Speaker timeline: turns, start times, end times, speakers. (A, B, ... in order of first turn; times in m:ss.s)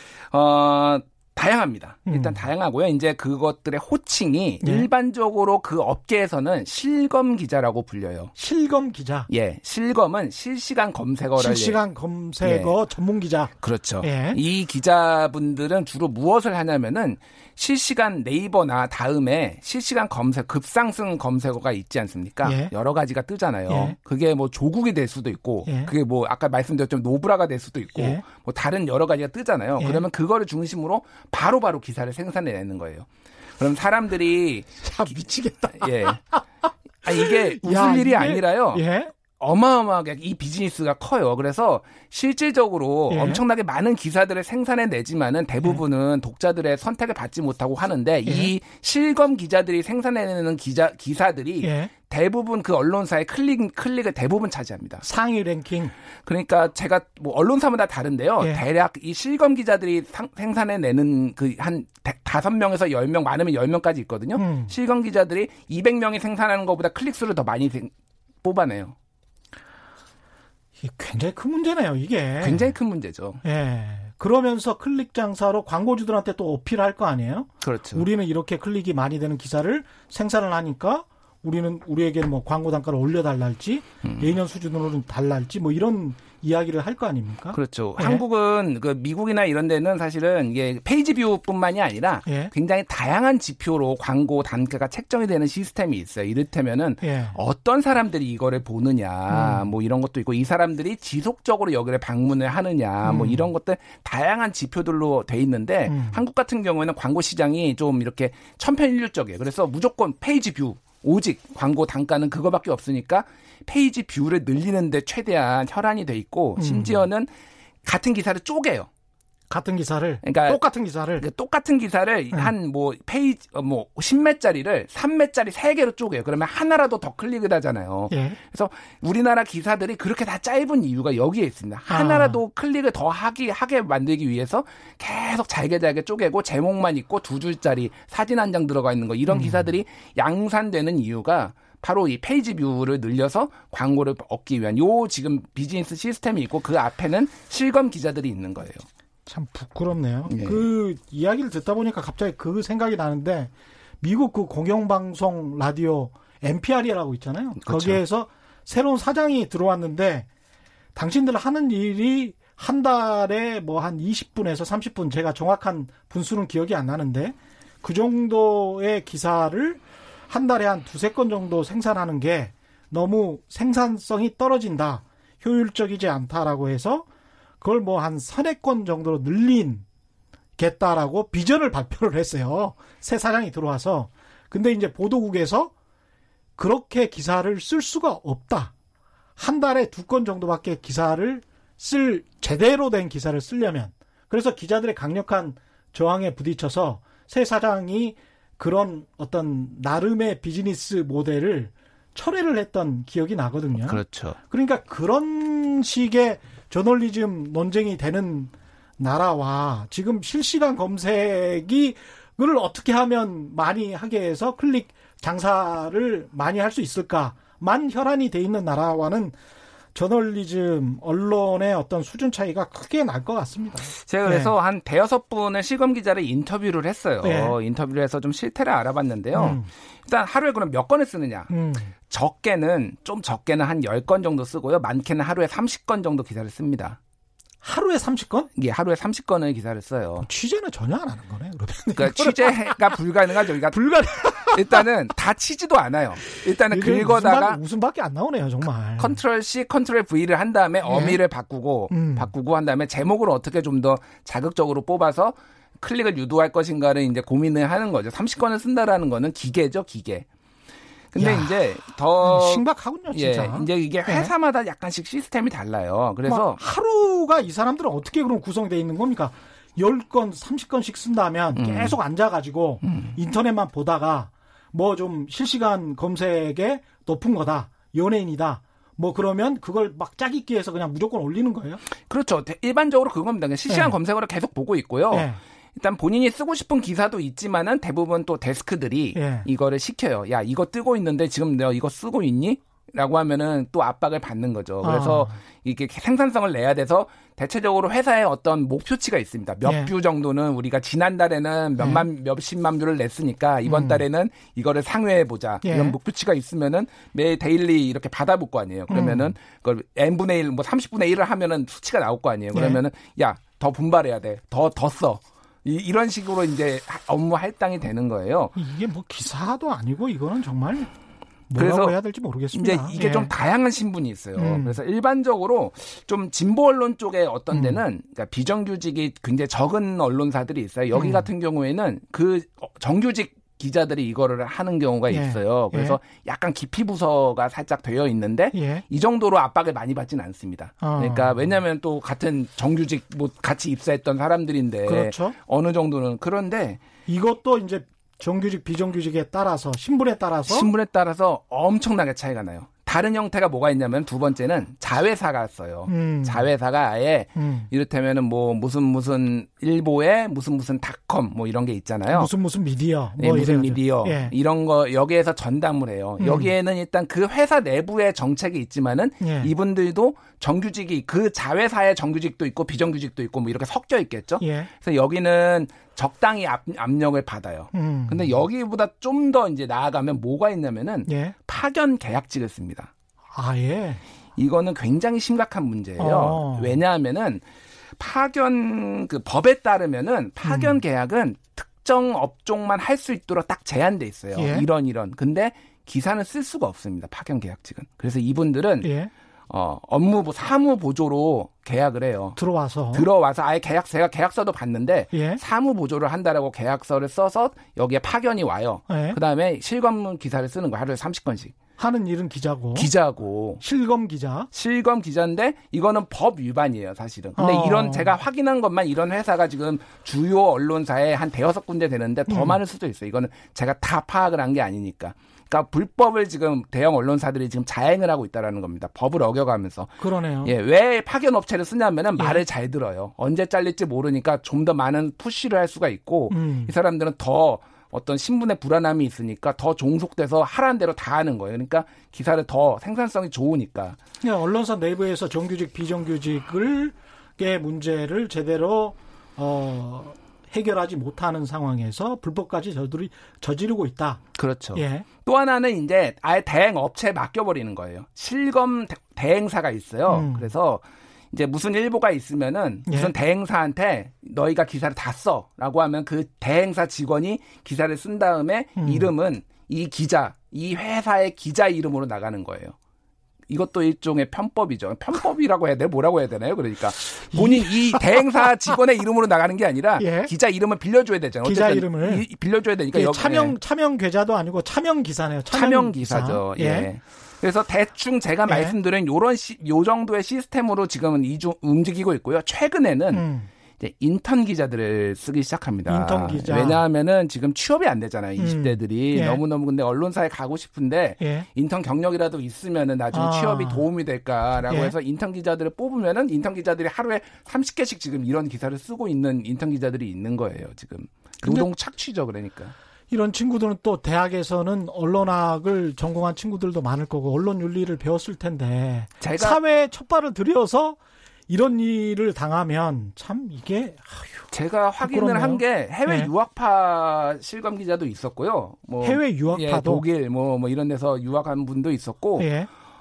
0:00.2-0:08.3 A
0:02.1-0:02.4 B
0:04.6-0:04.9 B
0:08.4-0:09.3 B
0:09.3-0:11.8 A
0:11.4-0:14.4 B
0:12.4-0:12.7 A
0:13.6-0:35.2 A
0:22.4-0:22.7 B
0:23.7-0:24.0 B
0:25.6-0:25.9 B
0:28.0-0:28.2 B
0:34.8-0:36.4 B
0:35.7-0:36.2 A
0:37.0-0:55.0 A
0:37.1-0:39.1 B
0:43.1-0:43.4 B
0:48.2-0:48.5 B
0:51.6-0:51.9 B
0:55.0-0:55.9 B
0:56.2-1:07.9 A
1:04.4-1:04.7 B
1:08.4-1:08.9 A
1:10.8-1:12.7 B
1:12.4-1:13.4 A
1:13.4-1:28.2 B
1:17.6-1:18.0 A
1:24.0-1:24.3 A
1:27.5-1:57.3 A
1:32.2-1:32.5 B
1:37.0-1:37.4 B
1:39.3-1:39.6 B
1:43.0-1:43.5 B
1:45.9-1:46.2 B
1:56.6-1:57.0 B
1:57.8-1:58.9 A
1:59.5-2:01.2 B
2:00.2-2:00.6 A
2:01.2-2:28.9 A
2:08.1-2:08.4 B
2:11.9-2:12.4 B
2:19.3-2:19.7 B
2:29.2-2:40.3 B
2:30.3-2:30.7 A
2:37.6-2:38.0 A
2:40.9-2:57.1 B
2:57.6-2:59.8 B
3:00.6-3:05.7 B
3:06.6-3:08.7 B
3:09.4-3:39.3 B
3:23.8-3:24.4 A
3:39.9-3:44.5 B
3:43.9-3:51.5 A
3:47.2-3:47.6 B
3:49.3-3:49.7 B
3:51.5-3:51.9 B
3:52.0-3:57.0 A
3:57.6-3:58.5 B
3:58.6-4:00.3 A
4:00.2-4:02.9 B
4:02.0-4:03.8 A
4:03.7-4:04.9 B
4:04.5-4:07.6 A
4:06.5-4:09.2 B
4:09.0-4:20.3 A
4:10.8-4:11.2 B
4:11.9-4:12.3 B
4:21.1-4:26.6 A
4:21.2-4:21.5 B
4:22.2-4:24.3 B
4:26.2-4:41.8 B
4:31.6-4:32.0 A
4:32.8-4:33.1 A
4:42.1-5:18.5 A
4:43.7-4:43.9 B
4:45.1-4:45.4 B
4:49.1-4:49.4 B
4:54.8-4:55.4 B
4:59.6-4:59.9 B
5:01.8-5:02.0 B
5:03.7-5:04.0 B
5:05.6-5:06.0 B
5:08.9-5:09.3 B
5:12.5-5:12.8 B
5:18.6-5:20.9 B
5:21.5-5:23.3 B
5:21.6-5:21.9 A
5:22.5-5:46.8 A
5:24.4-5:24.8 B
5:27.5-5:27.8 B
5:30.9-5:31.3 B
5:35.1-5:36.0 B
5:38.5-5:38.8 B
5:40.8-5:41.4 B
5:44.9-5:45.4 B
5:47.1-5:50.7 B
5:50.4-6:02.3 A
5:55.9-5:56.4 B
5:57.4-5:57.7 B
6:02.1-6:04.3 B
6:03.2-6:22.9 A
6:06.2-6:06.5 B
6:09.2-6:09.5 B
6:14.4-6:14.7 B
6:17.7-6:18.4 B
6:21.1-6:21.4 B
6:23.3-6:24.0 B
6:24.4-6:27.4 A
6:26.0-6:26.8 B
6:28.0-6:38.9 A
6:30.4-6:30.8 B
6:34.4-6:34.7 B
6:38.8-6:39.1 B
6:39.5-6:42.4 A
6:42.4-6:43.0 B
6:42.9-6:51.6 A
6:45.1-6:45.4 B
6:48.9-6:49.2 B
6:51.8-6:52.9 B
6:52.7-6:53.6 A
6:53.6-6:54.5 B
6:54.5-7:24.0 A
6:57.4-6:58.1 B
7:02.3-7:02.6 B
7:10.0-7:10.5 B
7:12.2-7:12.4 B
7:16.3-7:16.7 B
7:24.2-7:34.2 B
7:34.4-7:52.7 A
7:34.7-7:35.1 B
7:40.1-7:40.5 B
7:42.9-7:43.1 B
7:48.8-7:49.1 B
7:53.5-8:03.5 A
7:57.3-7:58.5 B
8:00.0-8:00.3 B
8:01.4-8:02.2 B
8:02.9-8:06.9 B
8:05.5-8:13.3 A
8:08.5-8:08.7 B
8:13.1-8:13.5 B
8:13.8-8:32.7 A
8:15.9-8:16.8 B
8:18.4-8:19.4 B
8:21.2-8:21.4 B
8:23.1-8:23.8 B
8:24.7-8:24.9 B
8:31.4-8:31.7 B
8:33.1-8:44.5 B
8:39.2-8:39.6 A
8:44.5-8:52.5 A
8:45.0-8:46.3 B
8:49.0-8:50.0 B
8:52.4-8:52.7 B